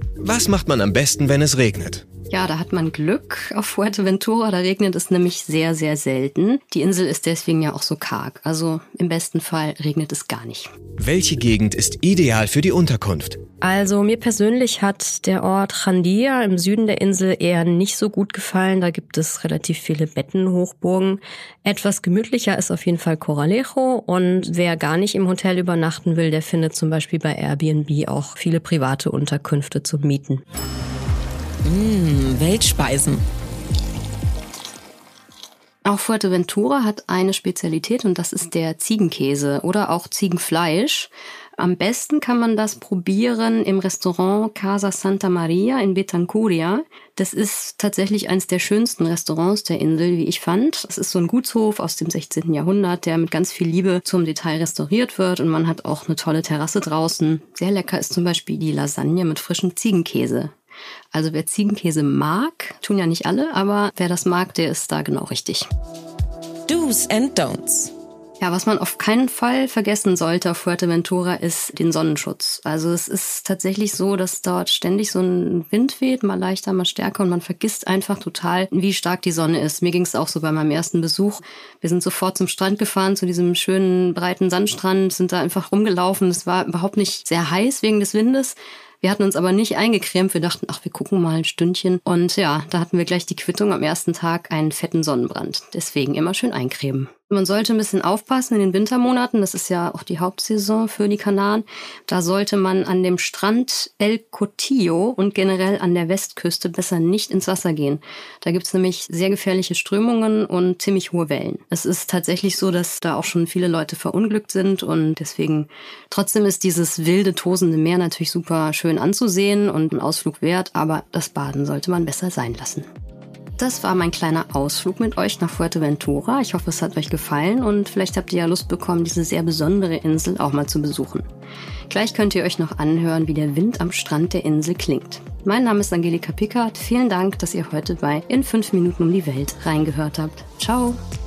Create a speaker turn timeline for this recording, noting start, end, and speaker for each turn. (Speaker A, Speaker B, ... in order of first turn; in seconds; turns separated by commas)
Speaker A: 0.2-2.0, Speaker B: 2.3-10.7, Speaker A: 11.0-13.4, Speaker C: 13.6-30.4, Speaker D: 31.6-33.2, Speaker B: 35.8-60.5, Speaker B: 61.1-65.7, Speaker D: 66.7-67.9, Speaker B: 68.4-122.9, Speaker B: 123.6-131.2, Speaker B: 131.9-141.0